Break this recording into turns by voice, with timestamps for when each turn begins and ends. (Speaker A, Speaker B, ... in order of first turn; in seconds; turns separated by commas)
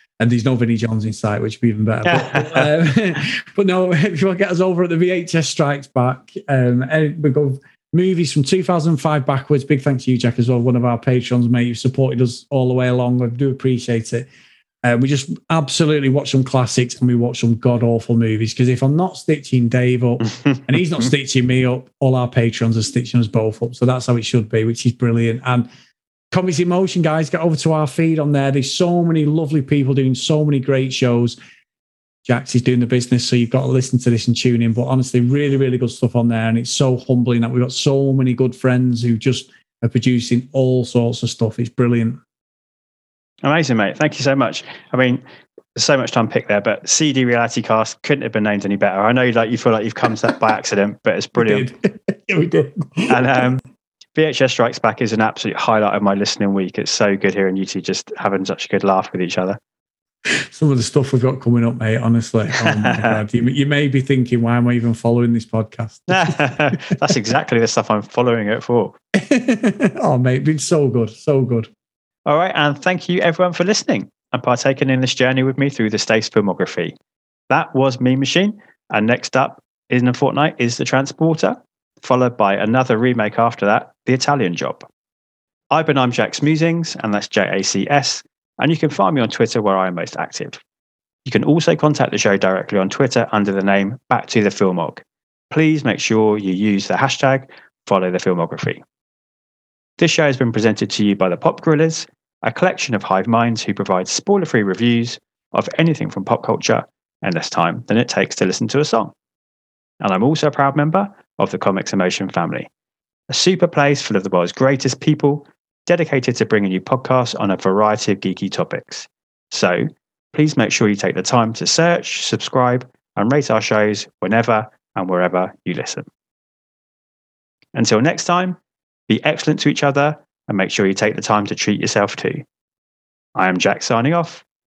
Speaker A: 0.2-14.3, Speaker B: 2.0-2.7, Speaker A: 14.8-25.7, Speaker B: 20.2-21.1, Speaker A: 26.3-31.4, Speaker A: 32.2-42.2, Speaker B: 43.4-45.2, Speaker B: 45.8-51.7, Speaker A: 51.4-53.5, Speaker B: 53.1-53.6, Speaker B: 54.1-59.6, Speaker A: 60.3-67.0, Speaker B: 62.5-63.2, Speaker B: 66.1-69.0, Speaker A: 69.2-71.7, Speaker B: 72.2-76.9, Speaker B: 77.5-84.8, Speaker B: 85.7-90.6, Speaker B: 91.2-98.8, Speaker B: 100.0-109.1, Speaker B: 110.0-112.7, Speaker B: 113.3-126.1, Speaker B: 127.7-128.6, Speaker B: 129.1-132.4, Speaker B: 133.3-134.4